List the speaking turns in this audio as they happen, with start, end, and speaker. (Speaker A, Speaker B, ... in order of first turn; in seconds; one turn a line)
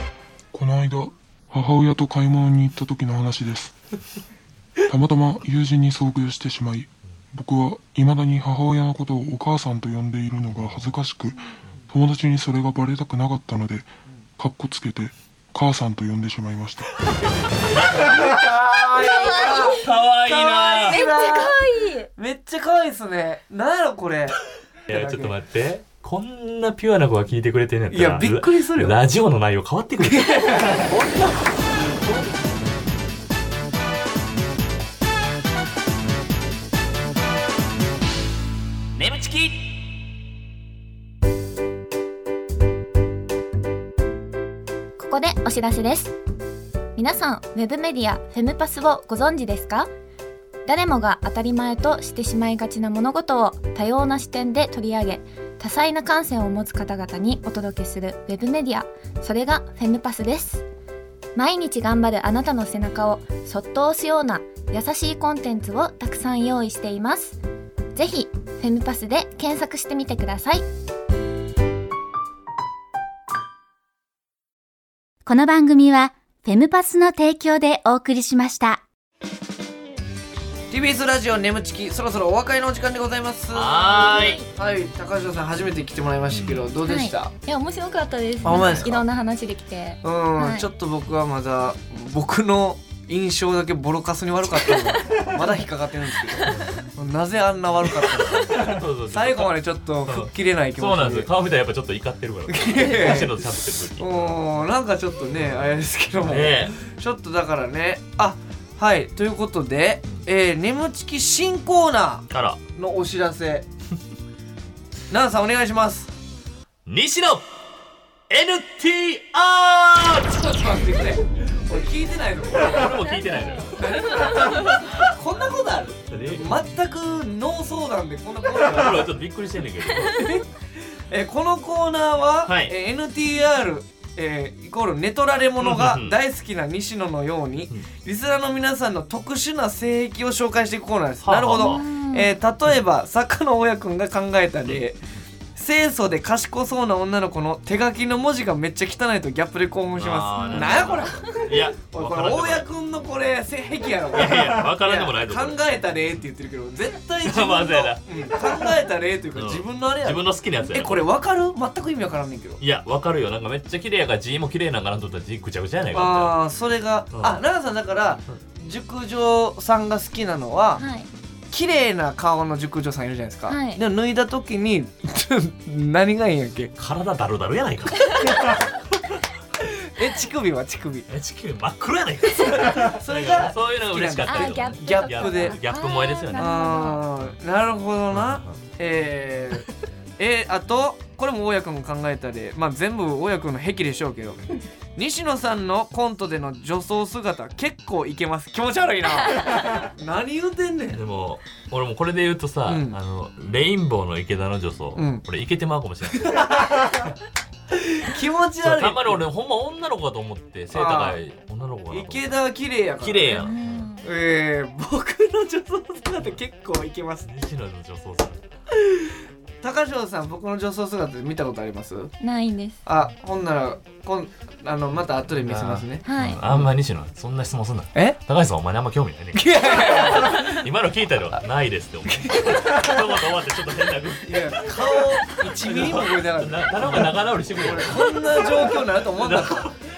Speaker A: 0.5-3.7
Speaker A: 4.9-17.1
Speaker B: 10.6-10.9
Speaker B: 17.5-18.4
Speaker C: 17.9-21.6
Speaker D: 19.0-19.8
Speaker B: 19.5-21.0
Speaker D: 20.9-22.1
Speaker C: 22.1-25.3
Speaker B: 24.9-31.3
Speaker C: 27.9-29.0
Speaker C: 30.0-32.6
Speaker B: 39.0-39.8
Speaker D: 45.0-46.1
Speaker D: 47.0-49.9
Speaker D: 50.6-60.6
Speaker D: 61.4-67.4
Speaker D: 68.0-70.7
Speaker E: 75.3-78.8
Speaker C: 80.7-87.3
Speaker B: 83.5-84.4
Speaker D: 84.0-84.5
Speaker B: 86.3-86.7
Speaker D: 86.8-90.7
Speaker C: 88.4-89.0
Speaker B: 88.4-88.9
Speaker C: 90.0-101.3
Speaker B: 96.5-96.9
Speaker B: 98.1-104.6
Speaker C: 102.5-113.7
Speaker B: 105.4-106.8
Speaker B: 112.3-112.6
Speaker C: 115.1-116.1
Speaker B: 116.9-117.5
Speaker B: 118.3-120.6
Speaker C: 120.3-129.1
Speaker B: 122.5-124.5
Speaker B: 126.1-126.6
Speaker B: 128.6-130.4
Speaker C: 130.1-130.4
Speaker C: 131.1-145.0
Speaker B: 132.5-132.8
Speaker B: 135.6-136.2
Speaker B: 141.2-141.8
Speaker D: 141.6-142.3
Speaker C: 145.6-162.6
Speaker B: 150.0-152.7
Speaker D: 150.4-151.4
Speaker B: 154.1-155.7
Speaker B: 157.2-158.0
Speaker B: 159.3-161.1
Speaker B: 162.6-166.4
Speaker C: 165.9-170.8
Speaker B: 167.1-167.4
Speaker D: 170.8-171.1
Speaker C: 171.5-176.7
Speaker D: 173.5-173.8
Speaker B: 176.8-178.7
Speaker C: 179.6-181.1
Speaker B: 181.1-186.7
Speaker C: 182.5-185.6
Speaker D: 184.3-187.1
Speaker C: 186.3-189.7
Speaker B: 188.1-188.6
Speaker C: 190.2-194.4
Speaker C: 195.0-201.0
Speaker B: 200.9-206.9
Speaker C: 202.7-203.0
Speaker C: 204.9-205.2
Speaker C: 206.2-207.1
Speaker C: 207.7-209.2
Speaker B: 208.6-212.3
Speaker C: 210.7-211.2
Speaker C: 211.9-213.5
Speaker B: 213.0-213.9
Speaker D: 213.3-214.0
Speaker C: 214.0-217.3
Speaker B: 217.2-218.4
Speaker C: 218.7-222.1
Speaker D: 222.2-222.8
Speaker C: 222.9-226.7
Speaker B: 225.4-239.8
Speaker D: 226.0-226.4
Speaker C: 227.9-228.2
Speaker C: 229.3-230.6
Speaker C: 232.1-233.1
Speaker C: 234.2-239.7